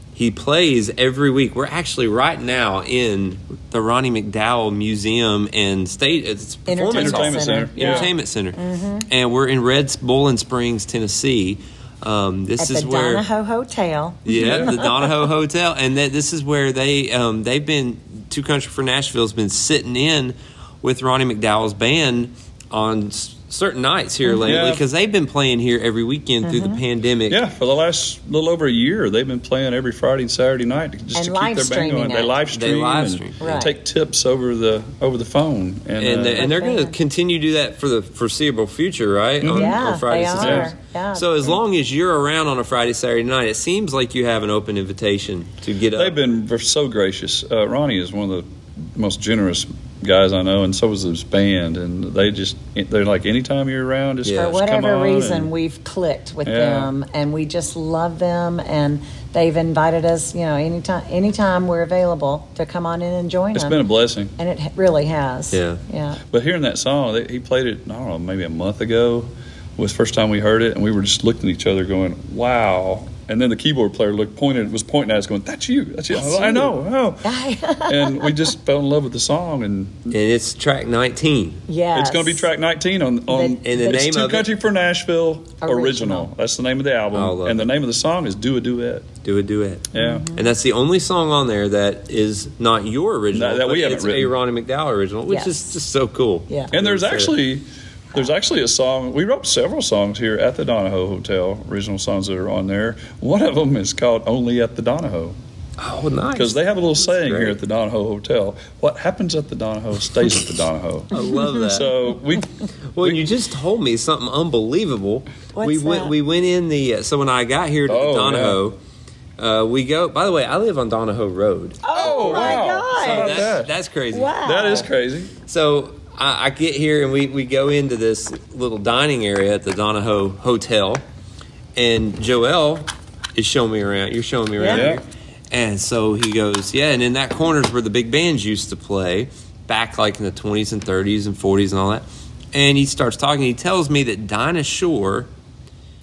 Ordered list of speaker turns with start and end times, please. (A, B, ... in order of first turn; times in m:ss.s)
0:00.1-0:13.2 A
0:06.7-0:09.1 B
0:06.9-0:08.1 C
0:12.6-0:15.1 B
0:14.2-0:27.4 A
0:14.3-0:14.8 C
0:24.2-0:24.6 B
0:24.4-0:24.8 C
0:26.4-0:26.8 B
0:27.3-0:36.5 C
0:31.1-0:32.3 B
0:32.5-0:33.5 A
0:33.4-0:33.7 B
0:36.0-0:46.1 A
0:36.4-0:36.9 B
0:39.4-0:39.8 C
0:39.5-0:41.6 B
0:40.4-0:40.7 C
0:45.9-0:55.5 C
0:54.2-0:54.6 A
0:54.3-1:03.8 B
0:56.4-0:56.9 C
1:03.5-1:04.3 C
1:04.4-1:06.2 B
1:05.5-1:05.8 A
1:06.3-1:17.3 C
1:16.2-1:16.7 B
1:17.2-1:18.4 B
1:17.8-1:20.2 C
1:20.1-1:21.6 A
1:21.7-1:22.5 B
1:21.9-1:29.1 C
1:23.3-1:24.1 B
1:23.6-1:24.5 A
1:25.6-1:26.3 B
1:27.1-1:27.7 A
1:29.2-1:37.3 A
1:29.9-1:30.2 C
1:29.9-1:30.5 B
1:33.3-1:34.3 C
1:35.3-1:35.7 B
1:36.7-1:45.4 C
1:45.8-1:47.6 A
1:46.3-1:53.3 C
1:51.1-1:51.9 A
1:51.1-1:51.8 B
1:52.9-1:58.8 A
1:55.5-1:56.1 B
1:57.9-1:58.6 C
1:59.4-2:04.4 A
2:01.8-2:03.5 B
2:01.9-2:03.7 C
2:04.1-2:04.9 B
2:04.4-2:05.3 C
2:05.4-2:11.0 A
2:11.8-2:25.3 A
2:14.6-2:14.9 B
2:14.7-2:15.0 C